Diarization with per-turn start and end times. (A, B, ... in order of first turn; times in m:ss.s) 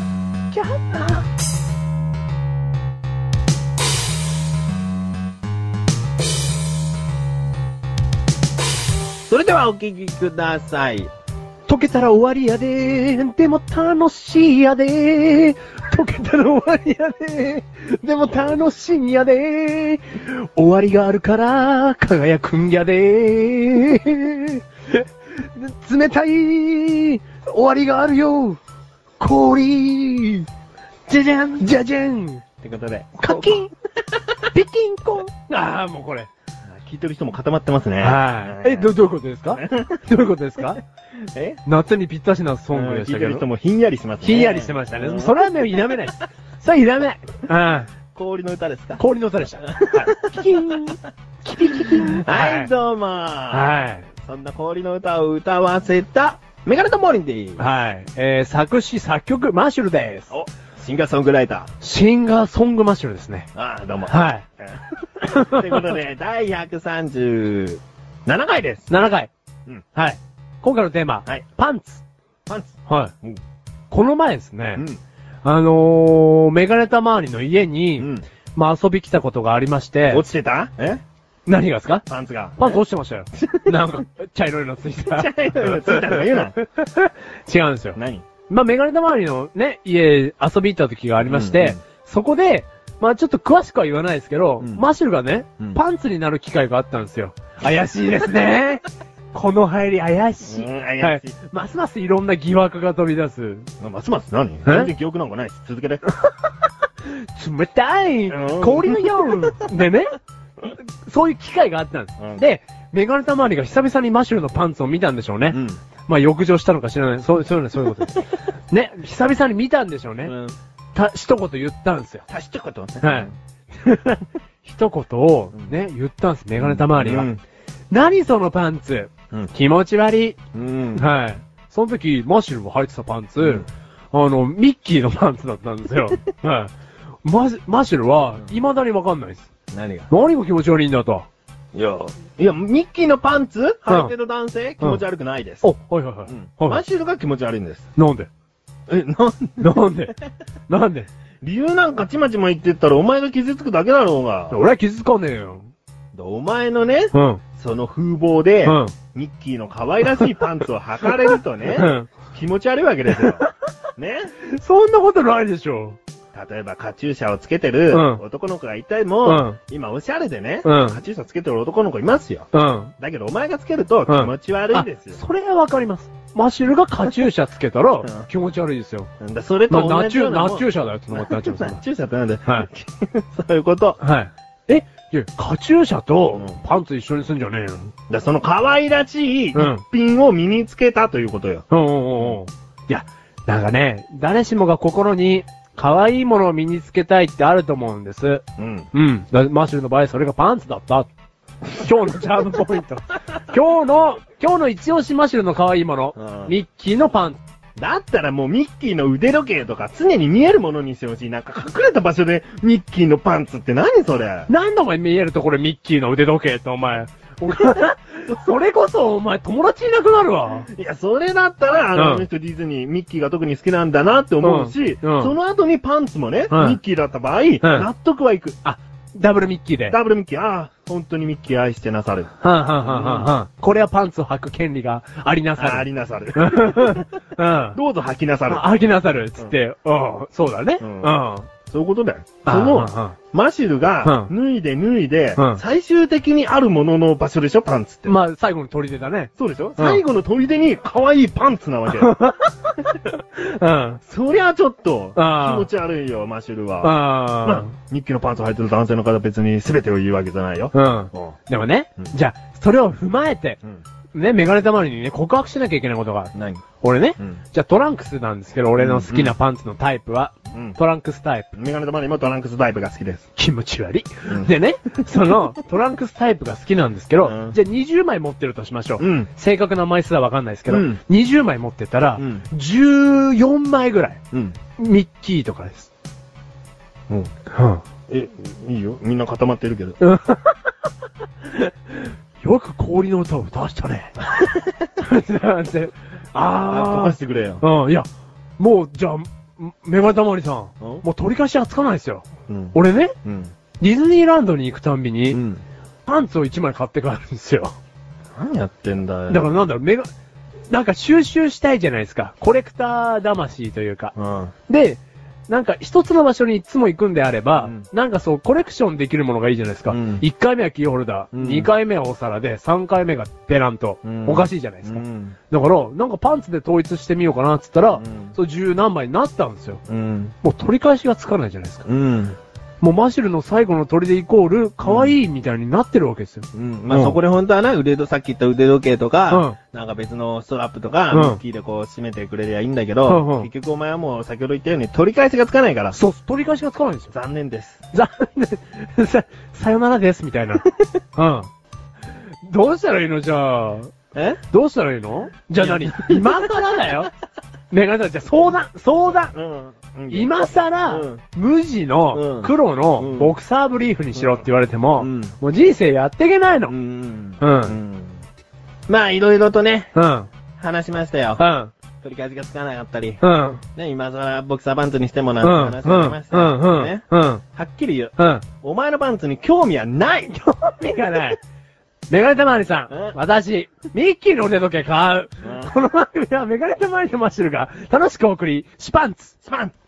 0:00.5-0:01.2 A
0:09.3-0:11.1 B
0:11.7-0:28.6 A
0:29.2-0:30.5 A
0:31.1-0:31.6 B
0:31.6-0:32.4 A
0:32.6-0:33.7 B
0:33.2-0:33.7 A
0:34.5-0:36.3 A
0:36.7-0:38.9 B
0:38.0-0:40.8 A
0:39.5-0:40.0 B
0:41.3-0:41.6 B
0:41.6-0:43.4 A
0:42.7-0:45.4 B
0:44.2-0:47.9 A
0:48.1-0:49.0 B
0:49.0-0:52.7 A
0:49.6-0:50.8 B
0:51.7-0:57.6 B
0:53.5-0:54.1 A
0:57.6-1:00.3 A
1:00.3-1:01.7 B
1:01.8-1:03.5 A
1:03.5-1:08.9 B
1:04.0-1:04.4 A
1:05.2-1:05.9 A
1:08.9-1:09.3 A
1:09.9-1:12.0 A
1:12.5-1:13.4 B
1:12.9-1:13.1 A
1:13.9-1:14.8 A
1:14.8-1:15.0 B
1:15.4-1:20.2 A
1:18.0-1:18.2 B
1:20.1-1:21.0 B
1:21.4-1:22.0 A
1:22.1-1:22.8 B
1:22.6-1:43.7 A
1:23.4-1:23.7 B
1:25.0-1:26.6 B
1:27.9-1:28.2 B
1:31.2-1:31.8 B
1:34.6-1:34.8 B
1:40.4-1:41.3 B
1:43.8-1:46.0 B
1:44.6-1:44.9 A
1:47.1-2:00.3 A
1:48.3-1:49.6 B
1:55.5-1:55.8 B
2:00.2-2:00.6 B
2:00.9-2:02.2 A
2:02.3-2:03.3 B
2:03.0-2:07.3 A
2:06.6-2:07.4 B
2:07.9-2:10.4 A
2:10.5-2:11.1 B
2:10.9-2:16.7 A
2:13.4-2:13.6 B
2:17.2-2:19.5 A
2:19.7-2:20.1 B
2:20.1-2:21.3 A
2:21.7-2:25.7 B
2:23.9-2:24.1 A
2:25.6-2:26.8 A
2:26.3-2:27.9 B
2:28.0-2:28.3 A
2:28.9-2:29.8 B
2:29.6-2:30.1 A
2:30.7-2:31.1 A
2:31.4-2:34.6 B
2:34.5-2:35.7 A
2:36.1-2:43.4 B
2:37.1-2:37.4 A
2:38.6-2:38.9 A
2:41.7-2:42.1 A
2:43.1-2:43.5 A
2:44.0-2:44.3 B
2:44.4-2:46.0 A
2:46.3-2:52.5 B
2:47.9-2:48.2 A
2:49.2-2:49.6 A
2:50.6-2:51.0 A
2:52.5-2:52.9 A
2:53.0-2:55.2 B
2:54.1-2:59.1 A
2:59.2-3:04.0 B
2:59.7-3:01.8 A
3:04.0-3:07.9 A
3:06.3-3:06.6 B
3:08.1-3:11.6 B
3:09.5-3:09.8 A
3:11.7-3:21.1 A
3:18.6-3:18.9 B
3:21.7-3:27.4 A
3:26.2-3:26.5 B
3:27.8-3:34.5 B
3:34.5-3:40.7 A
3:40.7-3:48.6 B
3:42.0-3:42.2 A
3:44.4-3:45.3 A
3:46.5-3:46.8 A
3:47.6-3:47.9 A
3:48.6-3:50.0 A
3:49.9-3:52.3 B
3:52.4-3:57.8 A
3:52.8-3:53.3 B
3:55.6-3:57.1 B
3:57.7-3:58.7 B
3:58.5-4:01.5 A
4:00.8-4:08.2 B
4:02.4-4:03.2 A
4:04.0-4:04.3 A
4:05.4-4:05.6 A
4:08.0-4:10.0 A
4:09.4-4:12.1 B
4:11.9-4:14.0 A
4:14.1-4:21.3 B
4:15.2-4:15.7 A
4:16.8-4:17.7 A
4:20.7-4:23.6 A
4:24.1-4:31.5 A
4:26.3-4:26.6 B
4:28.8-4:29.4 B
4:31.5-4:33.2 B
4:33.4-4:44.2 A
4:34.3-4:34.5 B
4:37.2-4:37.6 B
4:39.0-4:39.3 B
4:40.7-4:41.0 B
4:42.2-4:42.4 B
4:44.8-4:45.9 A
4:47.5-4:47.8 A
4:48.1-4:50.0 B
4:50.0-4:50.7 A
4:51.4-4:54.2 A
4:55.0-5:03.1 A
4:56.7-4:57.6 B
5:00.8-5:01.0 B
5:02.5-5:03.5 B
5:03.8-5:05.4 A
5:05.3-5:05.6 B
5:06.0-5:07.8 A
5:08.4-5:09.4 B
5:09.3-5:10.1 A
5:10.7-5:14.1 A
5:14.2-5:14.5 B
5:14.7-5:29.8 A
5:17.6-5:17.8 B
5:19.9-5:20.2 B
5:21.3-5:21.7 B
5:24.0-5:25.4 B
5:27.9-5:28.4 B
5:29.9-5:30.3 B
5:30.4-5:31.9 A
5:31.8-5:32.4 B
5:32.8-5:37.2 A
5:34.8-5:35.1 B
5:36.5-5:46.0 B
5:39.3-5:39.6 A
5:41.1-5:41.4 A
5:43.1-5:43.5 A
5:45.9-5:47.1 A
5:47.1-5:47.8 B
5:47.9-5:51.5 A
5:52.4-5:53.9 A
5:54.1-5:54.4 B
5:54.5-5:57.1 A
5:55.6-5:57.0 B
5:57.7-5:59.3 A
5:59.3-6:00.3 B
6:00.1-6:06.7 A
6:00.9-6:01.2 B
6:02.1-6:03.3 B
6:04.1-6:04.4 B
6:05.0-6:05.3 B
6:06.7-6:08.2 B
6:07.4-6:07.8 A
6:08.9-6:09.9 B
6:09.9-6:10.3 A
6:10.6-6:11.4 B
6:11.4-6:11.7 A
6:12.0-6:13.2 B
6:13.2-6:13.6 A
6:13.8-6:21.0 B
6:15.4-6:17.4 A
6:18.2-6:18.4 A
6:20.6-6:21.4 A
6:22.1-6:29.3 A
6:22.9-6:23.2 B
6:25.4-6:25.7 B
6:29.4-6:29.7 B